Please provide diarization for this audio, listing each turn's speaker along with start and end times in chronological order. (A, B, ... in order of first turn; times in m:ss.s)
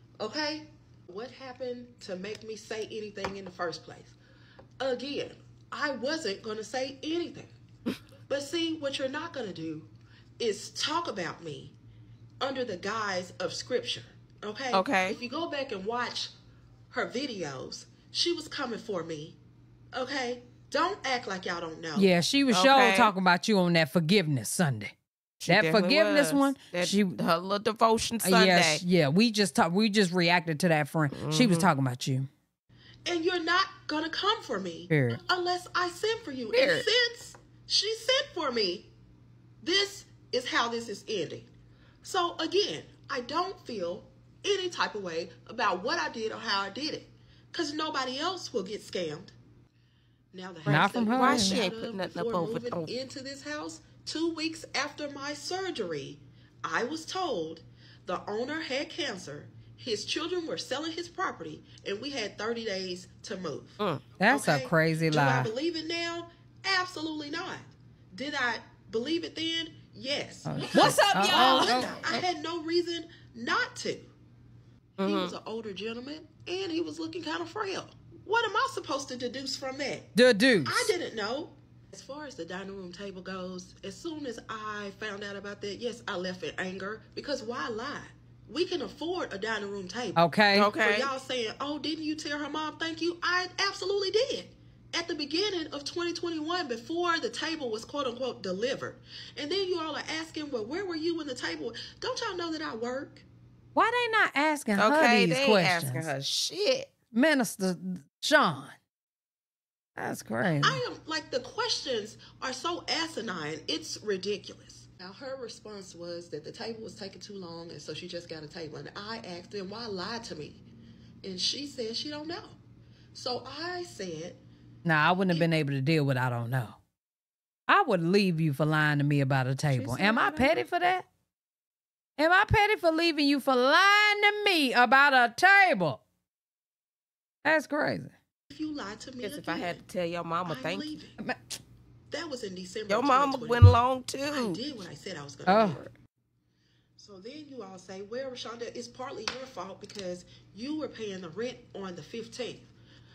0:00.2-0:04.1 A
0:04.8-0:07.5 A
0:08.3-0:11.7 A
0:12.4-0:16.3 A
0:14.7-0:15.2 B
0:16.9-0:19.4 A
0:19.9-0:22.1 A
0:22.0-0:24.9 C
0:22.5-0:23.1 B
0:25.4-0:28.8 B
0:25.5-0:27.2 C
0:28.2-0:32.3 C
0:31.1-0:31.7 B
0:33.0-0:38.9 A
0:34.9-0:35.2 C
0:36.5-0:36.8 B
0:39.6-0:41.5 A
0:42.0-0:49.3 A
0:50.3-1:14.1 A
0:50.6-0:52.9 B
0:50.6-0:51.6 C
1:03.8-1:04.1 B
1:04.2-1:05.5 C
1:10.4-1:11.9 C
1:10.8-1:12.2 B
1:15.0-1:15.3 B
1:15.0-1:20.1 A
1:20.1-1:20.9 C
1:20.6-1:30.2 A
1:30.2-1:30.7 C
1:30.5-1:31.1 B
1:30.7-1:43.2 A
1:43.7-1:46.1 C
1:44.8-1:46.9 B
1:47.1-1:48.7 C
1:50.0-1:50.8 C
1:50.4-2:00.6 A
2:01.2-2:02.6 A
2:03.1-2:04.4 A
2:04.8-2:06.8 C
2:07.7-2:11.0 C
2:09.7-2:10.6 B
2:12.2-2:16.0 C
2:17.4-2:18.1 C
2:18.5-2:19.8 A
2:19.2-2:21.0 B
2:20.4-2:21.2 A
2:21.2-2:21.6 C
2:22.1-2:25.8 A
2:22.9-2:24.6 B
2:25.4-2:25.8 C
2:25.5-2:25.9 B
2:27.0-2:32.7 A